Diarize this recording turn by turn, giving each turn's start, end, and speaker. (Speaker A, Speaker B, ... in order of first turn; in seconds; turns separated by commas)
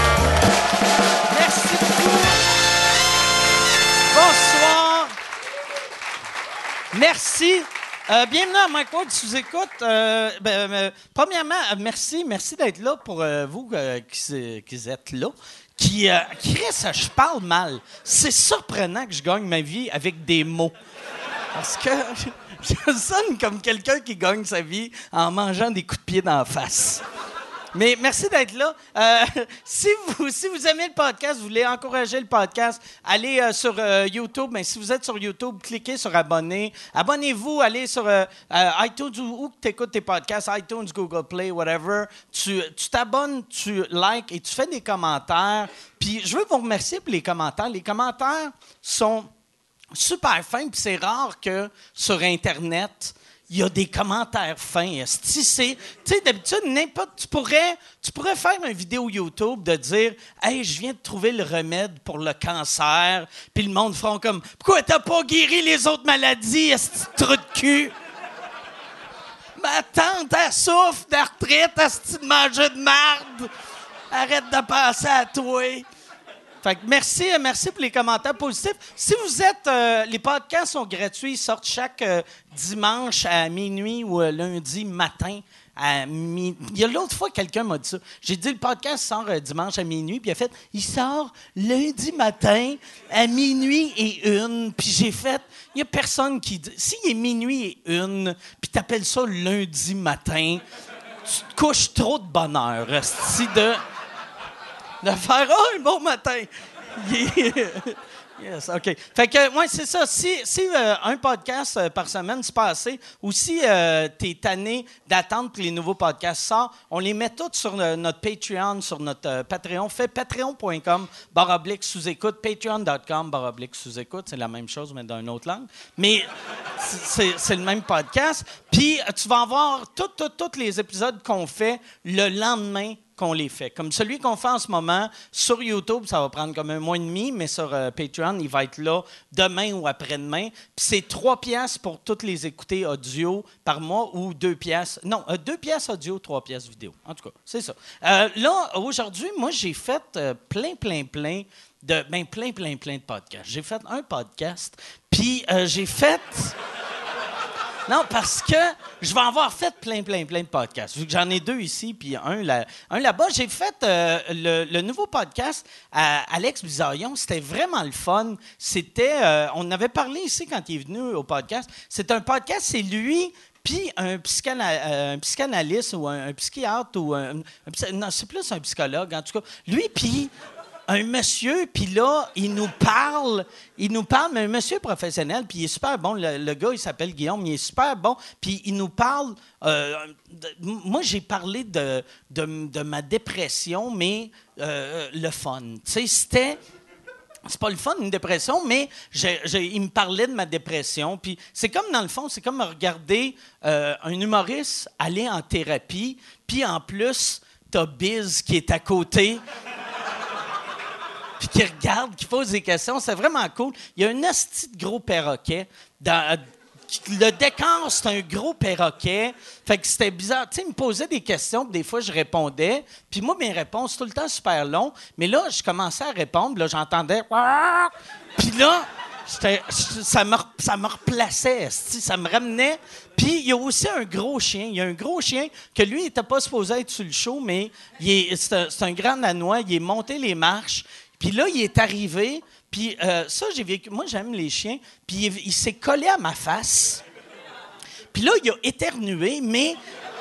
Speaker A: 1.3-2.4, Speaker A: 4.0-5.1, Speaker A: 6.9-20.7, Speaker A: 21.5-27.0, Speaker A: 27.7-49.3, Speaker A: 49.9-67.9, Speaker A: 69.6-73.5, Speaker A: 74.1-75.8, Speaker A: 76.6-100.6, Speaker A: 101.2-103.8, Speaker A: 105.0-156.6, Speaker A: 157.9-180.3, Speaker A: 180.9-196.6, Speaker A: 197.4-209.4, Speaker A: 211.4-247.0, Speaker A: 248.1-249.8